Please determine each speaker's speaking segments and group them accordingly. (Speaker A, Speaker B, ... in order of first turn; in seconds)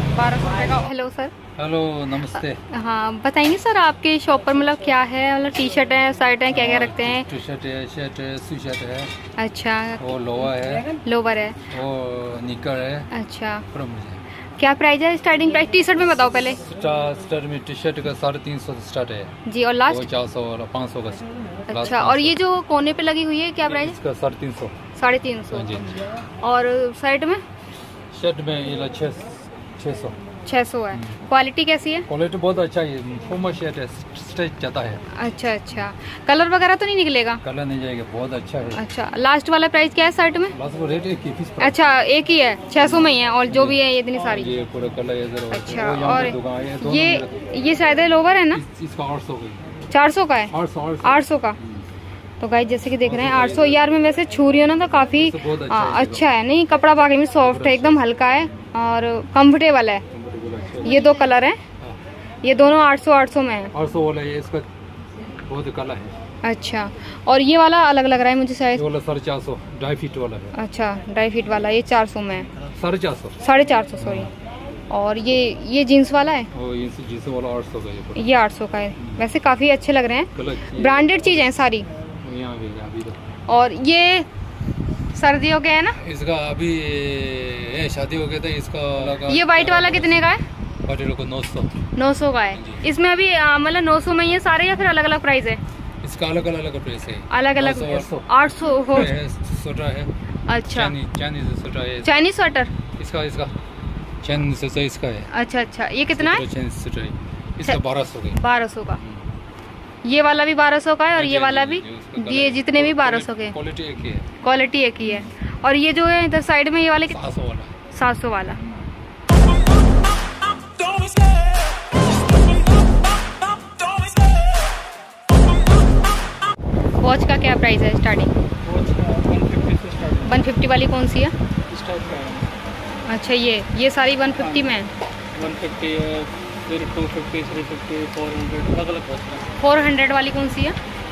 Speaker A: 0.1-1.3, 2.7-7.3, 9.4-10.2, 10.9-11.6, 13.1-13.6, 14.6-16.6, 19.5-20.1, 21.7-24.0, 25.0-25.8, 26.4-27.4, 30.5-32.1, 35.1-37.4, 38.7-40.5, 41.6-44.5, 45.5-48.6, 49.9-50.5, 51.0-51.6, 52.4-60.0, 60.8-61.6, 62.4-63.7, 66.4-68.8, 70.5-72.5, 73.4-74.3, 74.9-76.5, 78.2-81.9, 83.5-84.3, 85.1-86.0, 89.3-90.4, 92.0-95.6, 97.3-99.1, 100.5-100.9, 102.0-102.7, 105.3-106.4, 108.4-109.0, 110.0-113.5, 114.4-117.2, 117.9-118.6, 127.0-128.3, 130.2-131.3, 133.1-134.9, 139.6-140.8
Speaker B: 1.6-2.6, 6.5-9.1, 10.0-10.9, 11.7-13.1, 13.7-14.2, 16.7-19.3, 19.9-22.4, 23.6-24.7, 25.5-26.0, 28.1-30.2, 30.9-31.2, 32.1-35.0, 37.4-38.8, 40.5-41.8, 42.8-47.5, 48.5-49.7, 50.5-51.9, 53.0-53.9, 55.2-56.3, 57.4-58.0, 60.1-61.1, 63.7-64.7, 65.5-66.1, 68.7-70.5, 72.7-73.4, 74.0-74.3, 76.5-78.2, 80.3-81.2, 82.2-83.2, 86.0-90.3, 90.9-91.7, 92.5-92.8, 96.0-98.3, 98.9-100.1, 100.7-102.3, 103.0-103.5, 104.2-105.3, 106.1-108.4, 109.0-109.2, 111.1-114.2, 117.1-117.7
Speaker C: 128.7-130.3, 131.7-132.5, 135.4-139.4